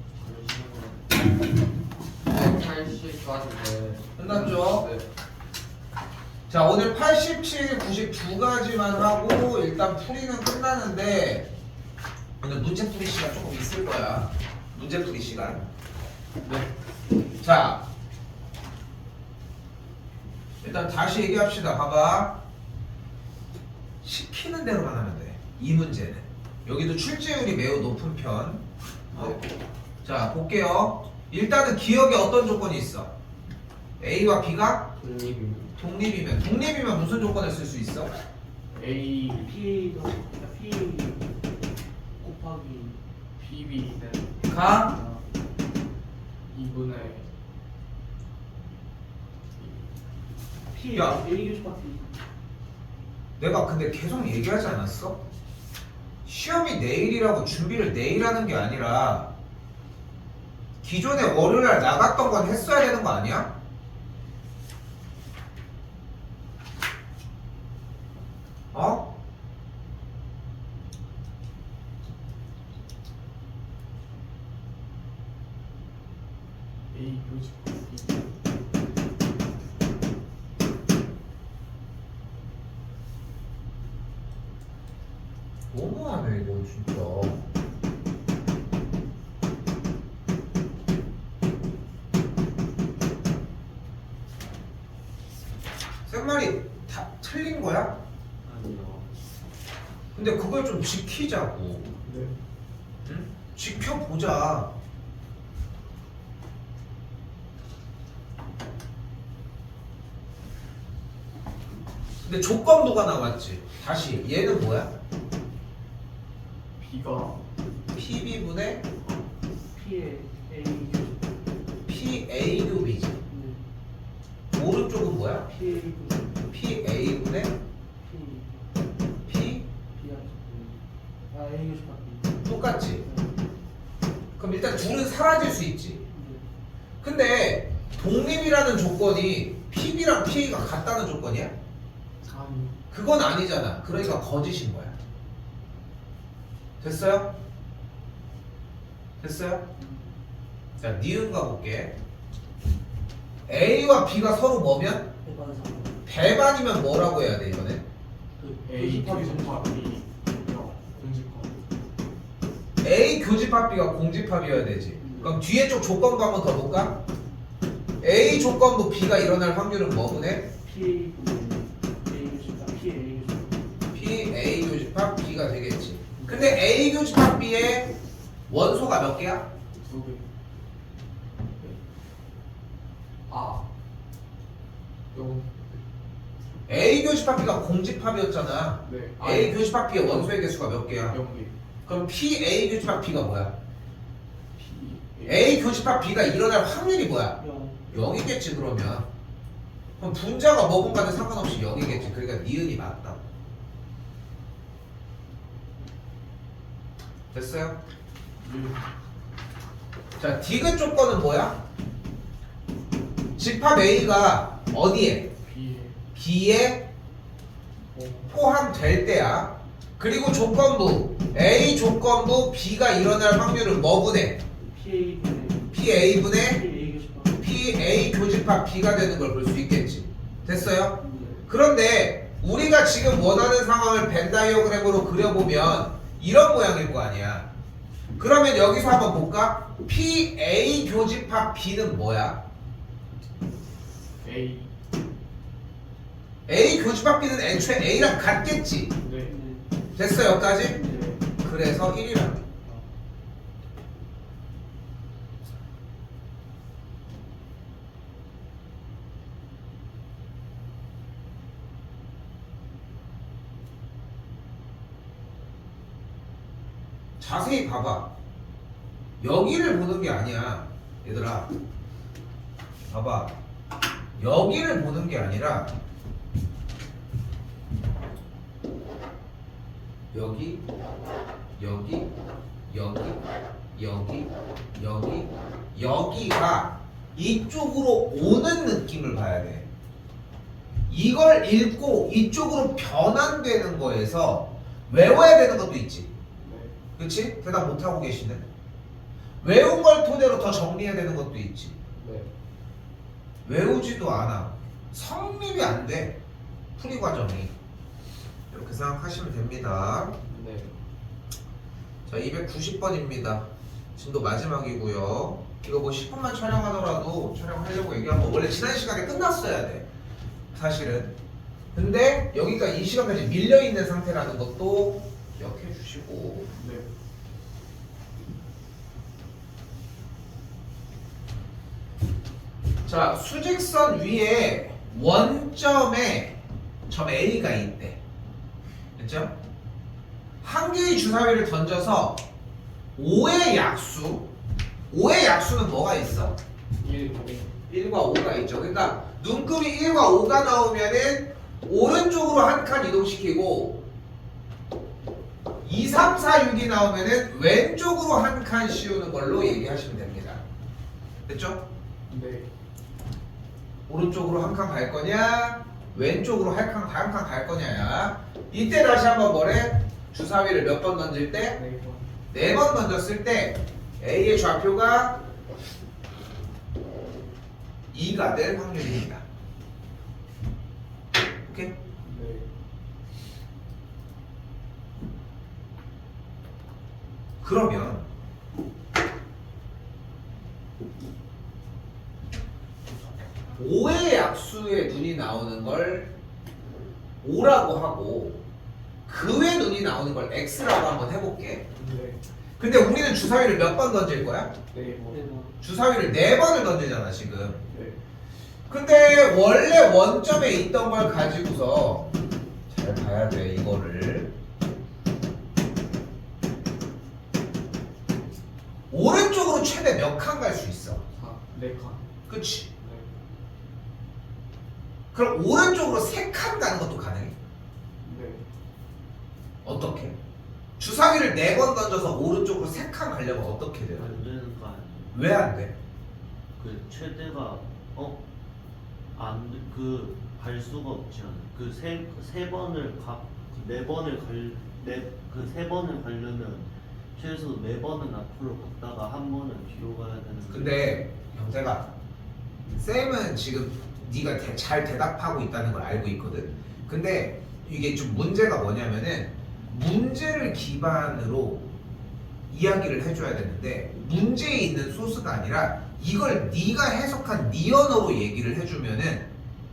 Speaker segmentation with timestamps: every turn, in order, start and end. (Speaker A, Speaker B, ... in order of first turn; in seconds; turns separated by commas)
Speaker A: 0.1-1.2, Speaker A: 2.2-5.0, Speaker B: 4.2-4.8, Speaker B: 6.5-11.5, Speaker B: 12.4-15.6, Speaker A: 16.4-16.7, Speaker B: 17.4-17.8, Speaker B: 20.6-22.4, Speaker B: 24.0-29.4, Speaker B: 30.0-33.1, Speaker B: 34.0-34.9, Speaker A: 35.0-35.7, Speaker B: 35.8-38.1, Speaker A: 38.7-39.5, Speaker C: 39.3-41.4, Speaker C: 42.2-43.0, Speaker A: 43.4-44.5, Speaker B: 44.5-44.9, Speaker C: 44.9-45.2, Speaker A: 46.5-47.3, Speaker A: 49.6-49.9, Speaker C: 50.7-52.1, Speaker B: 50.9-51.2, Speaker B: 53.4-55.2, Speaker B: 56.2-59.3, Speaker B: 60.8-63.5, Speaker B: 68.7-69.1, Speaker A: 76.9-78.3, Speaker B: 85.7-87.5, Speaker B: 96.1-98.0, Speaker D: 98.4-99.1, Speaker B: 100.1-101.9, Speaker A: 102.0-102.3, Speaker B: 103.0-104.7, Speaker B: 112.2-114.9, Speaker A: 116.8-117.4, Speaker B: 117.9-118.8, Speaker C: 119.7-121.4, Speaker B: 121.9-123.2, Speaker C: 123.3-123.6, Speaker B: 124.5-125.5, Speaker C: 125.4-126.5, Speaker B: 126.5-127.5, Speaker C: 128.0-128.7, Speaker B: 129.3-129.7, Speaker C: 129.9-133.4, Speaker B: 132.4-133.0, Speaker B: 134.4-136.0, Speaker C: 136.1-136.4, Speaker B: 137.0-141.5, Speaker A: 142.2-142.8, Speaker B: 142.9-144.9, Speaker B: 146.8-147.3, Speaker B: 149.2-149.6, Speaker C: 149.8-150.1, Speaker B: 150.8-151.9, Speaker B: 153.5-155.1, Speaker C: 155.2-156.0, Speaker B: 156.1-157.8, Speaker C: 158.4-159.9, Speaker A: 158.6-161.6, Speaker B: 162.8-167.0, Speaker C: 165.0-165.4, Speaker B: 168.0-170.5, Speaker C: 170.6-173.8, Speaker B: 173.9-177.9, Speaker A: 176.2-176.6, Speaker B: 178.5-179.5, Speaker A: 179.8-180.3, Speaker A: 183.3-183.7, Speaker A: 185.1-185.8, Speaker B: 186.7-191.2, Speaker A: 188.8-189.6, Speaker A: 191.1-191.5, Speaker B: 191.8-193.5, Speaker A: 194.6-195.7, Speaker B: 195.2-197.4, Speaker C: 197.4-197.8, Speaker B: 197.9-199.1, Speaker B: 200.0-203.2, Speaker B: 207.3-207.8, Speaker A: 208.4-208.8, Speaker B: 210.2-211.6, Speaker B: 213.3-215.3, Speaker A: 215.4-216.0, Speaker B: 216.1-216.8, Speaker A: 217.9-218.3, Speaker B: 218.3-224.4, Speaker C: 224.6-227.4, Speaker B: 225.7-226.6, Speaker B: 227.4-237.5, Speaker C: 230.4-231.4, Speaker B: 238.2-242.4, Speaker A: 244.2-244.7, Speaker B: 246.5-248.9, Speaker A: 249.0-249.3, Speaker C: 249.2-251.2, Speaker B: 249.9-250.8, Speaker A: 250.7-251.2, Speaker B: 251.4-252.4, Speaker B: 267.2-268.1, Speaker B: 269.2-271.5, Speaker B: 272.9-273.3, Speaker B: 274.2-275.7, Speaker B: 280.1-280.6, Speaker B: 281.6-282.1, Speaker B: 282.7-283.2, Speaker B: 283.7-289.7, Speaker B: 290.9-296.1, Speaker A: 296.4-296.7, Speaker B: 297.0-298.4, Speaker B: 299.4-301.8, Speaker A: 301.9-302.3, Speaker B: 303.4-306.2, Speaker B: 306.8-307.5, Speaker B: 308.5-310.1, Speaker A: 310.2-310.8, Speaker B: 312.1-319.9, Speaker B: 320.5-321.1, Speaker B: 321.7-326.5, Speaker A: 326.5-326.9, Speaker B: 332.8-338.0, Speaker B: 338.9-339.3, Speaker B: 340.4-342.2, Speaker B: 342.9-344.3, Speaker B: 344.9-346.4, Speaker A: 346.8-347.5, Speaker B: 347.7-353.8, Speaker B: 355.6-360.4, Speaker B: 361.2-361.6, Speaker A: 362.1-362.5, Speaker B: 363.9-371.6, Speaker A: 371.5-372.1, Speaker B: 372.3-375.2, Speaker B: 377.9-379.2, Speaker B: 381.4-381.7, Speaker A: 382.0-382.5, Speaker B: 387.4-388.1, Speaker B: 393.5-396.1, Speaker B: 397.2-398.4, Speaker B: 399.1-401.6, Speaker A: 401.7-402.2, Speaker B: 402.6-404.5, Speaker A: 404.7-405.2, Speaker C: 405.1-405.5, Speaker B: 405.6-407.6, Speaker A: 407.7-408.0, Speaker B: 408.7-412.1, Speaker B: 412.7-414.3, Speaker B: 418.9-421.0, Speaker A: 421.1-422.1, Speaker B: 422.3-422.7, Speaker A: 422.8-423.1, Speaker B: 425.1-427.3, Speaker A: 428.0-428.4, Speaker B: 429.6-430.1, Speaker B: 430.8-434.2, Speaker D: 433.9-435.2, Speaker B: 435.1-435.7, Speaker D: 436.6-438.2, Speaker D: 439.1-451.0, Speaker B: 450.5-451.9, Speaker B: 452.7-461.6, Speaker B: 462.5-469.3